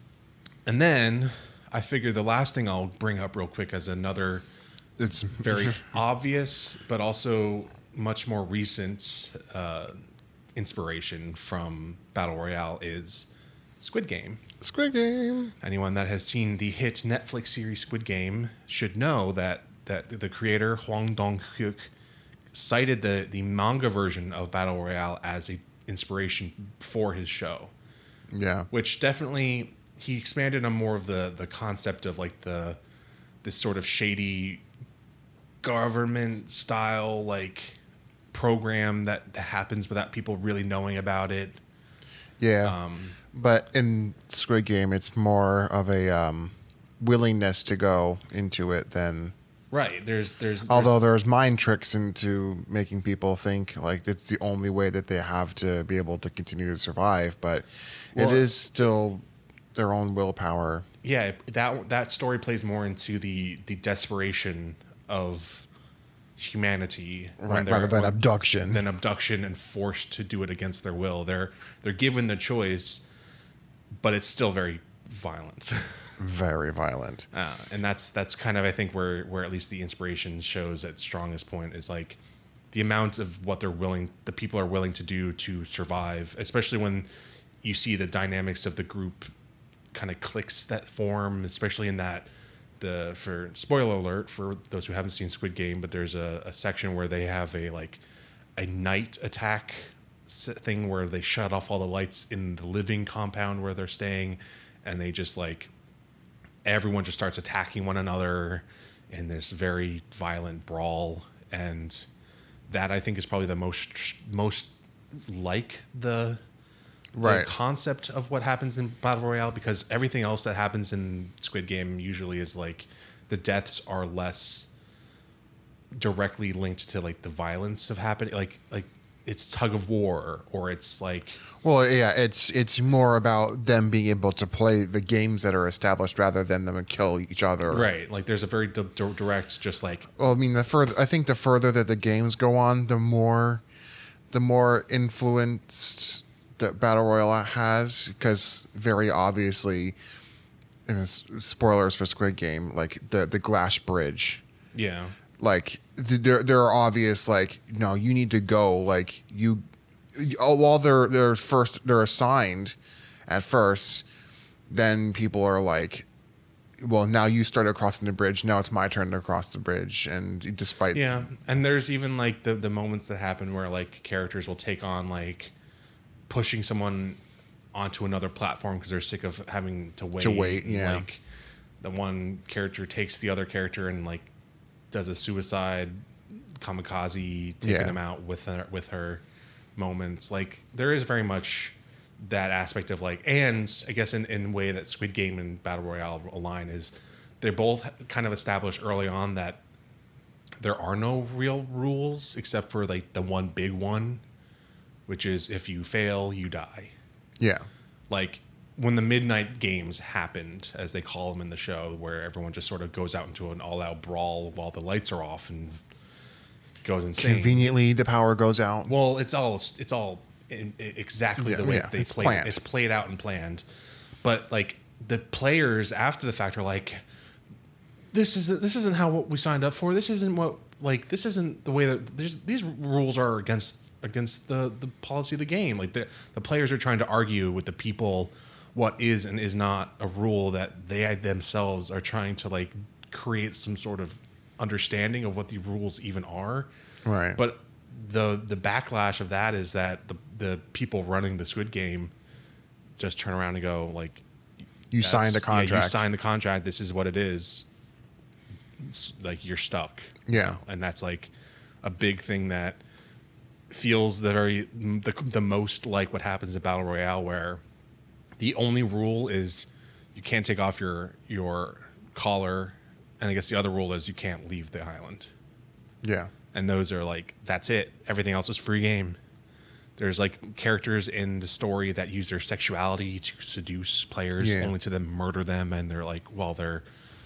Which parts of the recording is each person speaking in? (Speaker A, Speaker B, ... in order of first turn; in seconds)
Speaker A: 0.7-4.5, 5.3-10.0, 10.6-13.3, 13.8-14.4, 15.6-21.9, 22.5-27.7, 28.7-32.8, 33.4-34.6, 35.6-37.8, 38.3-41.6, 42.6-43.2, 49.7-51.0, 58.1-58.5, 61.0-65.7, 66.4-73.0, 74.0-76.2, 77.3-82.2, 82.7-87.1, 87.6-89.3, 89.9-98.0, 98.5-105.7, 106.7-112.1, 112.7-116.4, 117.2-124.7, 126.0-131.4, 137.7-140.1, 154.7-155.2, 170.9-175.5, 176.3-177.2, 177.7-181.2, 181.8-184.3, 184.9-189.2, 189.8-199.6, 200.6-204.2, 205.1-206.9, 208.1-215.8, 216.8-217.7, 218.9-223.6, 224.2-227.0, 228.1-246.7, 247.3-252.1, 253.0-254.2, 255.0-257.6, 258.8-261.3, 261.8-262.8, 263.7-267.6, 268.4-275.3, 276.5-279.2, 280.0-286.8
Speaker B: 5.0-5.8, 14.6-15.5, 28.3-28.7, 42.4-42.8, 43.3-49.3, 50.7-60.9, 67.4-68.8, 76.2-77.3, 117.1-117.5, 131.6-137.9, 140.2-143.6, 144.3-150.0, 150.8-154.4, 155.4-159.6, 160.1-164.1, 164.7-166.1, 166.8-171.3, 180.2-181.1, 187.6-188.0, 207.4-207.7, 217.2-218.9, 221.4-222.6, 247.0-247.4, 254.9-256.0, 260.3-260.6, 276.0-276.3, 284.4-284.7